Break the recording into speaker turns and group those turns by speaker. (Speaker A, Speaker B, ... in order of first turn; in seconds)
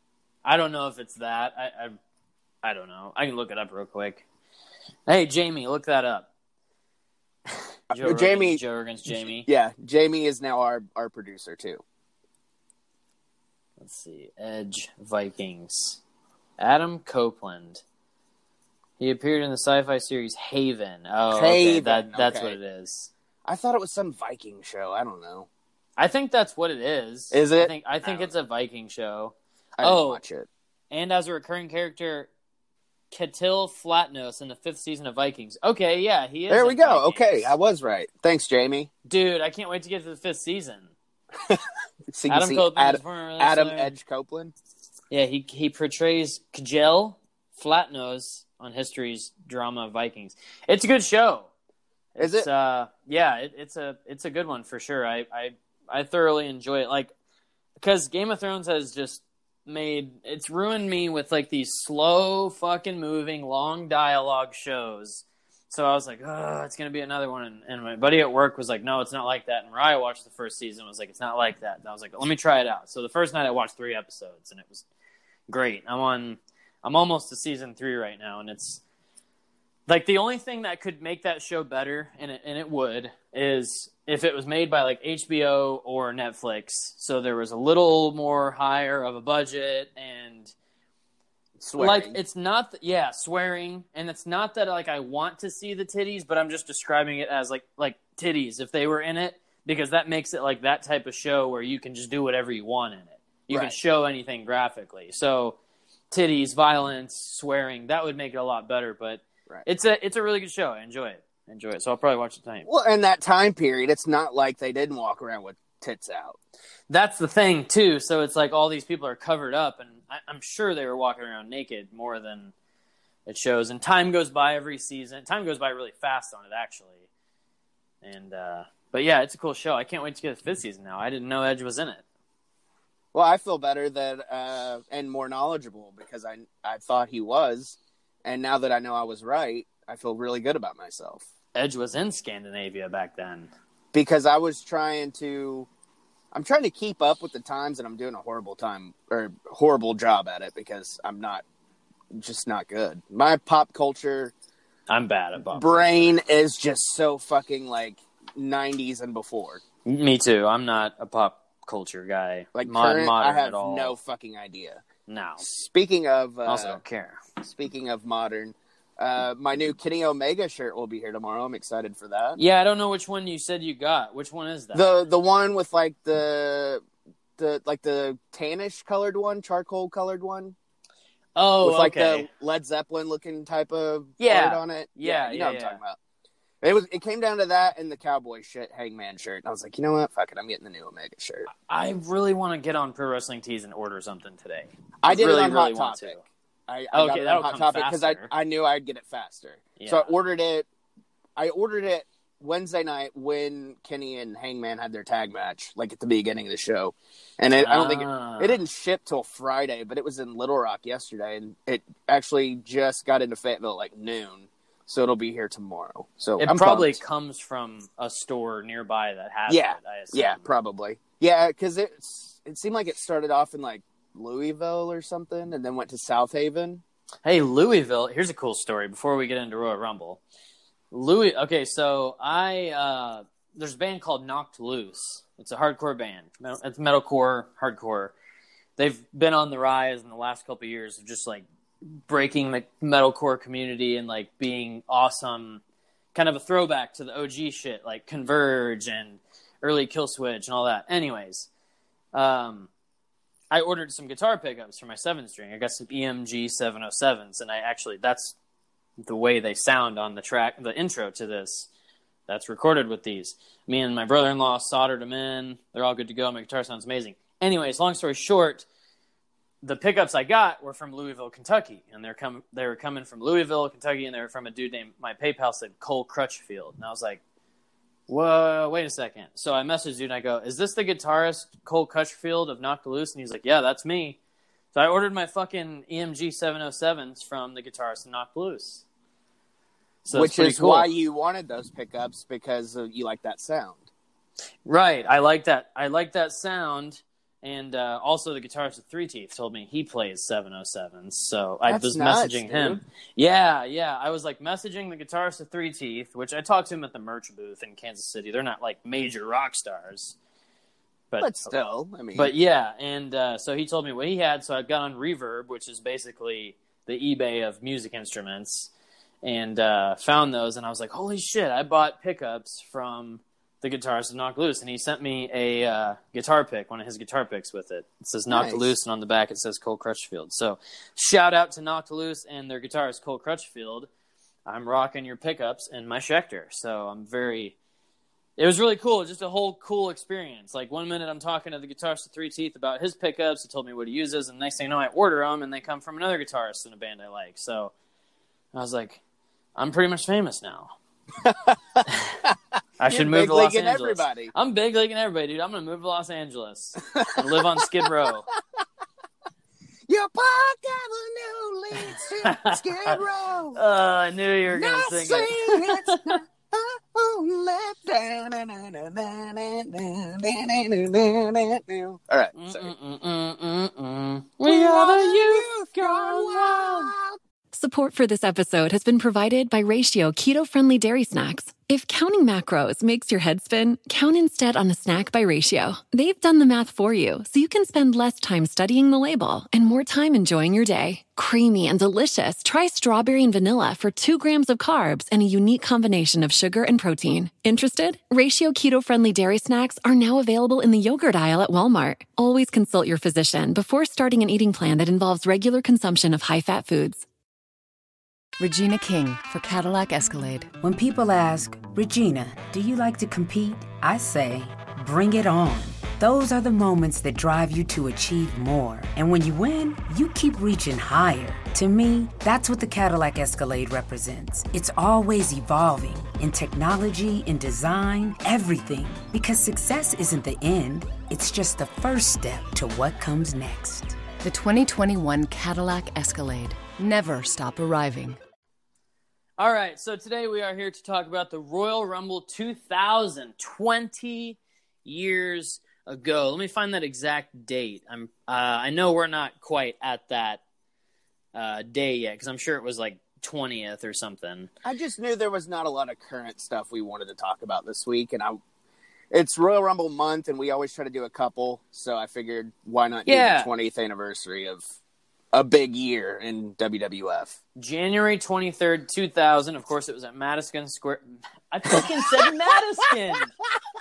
Speaker A: 0.4-2.0, 2.6-4.2, 5.1-6.3, 7.9-9.5, 13.8-16.0, 16.6-17.8, 19.0-23.1, 26.0-30.2, 30.9-32.3, 33.1-37.5, 39.0-40.9, 42.3-43.9, 45.1-51.5, 52.1-57.1, 57.8-74.8, 75.5-78.8, 79.9-90.5, 91.8-105.6, 106.1-112.7, 116.9-122.5, 123.2-127.0, 128.0-132.0, 141.5-143.5, 154.9-156.1, 159.8-164.0, 165.1-165.4, 166.4-167.2, 172.4-174.8, 181.3-182.3, 184.2-185.8, 191.5-196.2, 196.9-198.3, 199.8-200.1, 207.5-208.6, 216.4-220.5, 227.2-230.2, 230.9-238.1, 238.8-241.4, 242.1-245.6, 246.1-251.5, 252.1-252.7, 253.5-258.3, 259.0-261.7, 262.3-268.6, 269.6-277.2, 278.1-284.2, 284.7-288.8, 290.0-290.9, 294.6-310.1, 311.1-311.5, 312.1-318.7, 319.2-333.9, 334.4-337.5, 338.4-347.7, 348.5-349.0, 349.6-350.7, 352.8-358.3, 361.8-363.0, 363.5-366.2, 372.3-376.9, 439.4-450.4, 451.3-454.5, 463.1-463.5, 467.6-473.3
Speaker B: 7.9-11.8, 21.3-22.6, 23.4-25.5, 27.3-28.3, 29.8-30.5, 36.5-38.9, 41.4-44.5, 52.2-52.5, 91.6-92.2, 103.5-103.7, 112.6-116.4, 133.1-141.2, 143.9-145.7, 146.3-151.4, 152.1-154.3, 155.5-159.6, 162.5-164.8, 165.4-166.8, 167.4-172.4, 174.7-176.8, 177.4-180.5, 181.6-186.0, 186.6-191.5, 195.0-200.7, 201.3-217.0, 219.5-226.8, 290.1-293.9, 301.6-302.8, 311.2-312.3, 328.3-328.7, 351.2-352.3, 352.9-354.3, 356.9-357.9, 359.9-363.6, 364.5-372.7, 374.4-377.2, 454.6-458.4, 459.1-464.6, 465.3-467.4, 471.7-472.3
Speaker C: 377.5-407.0
Speaker D: 408.4-410.5, 434.2-438.2
Speaker E: 410.6-434.0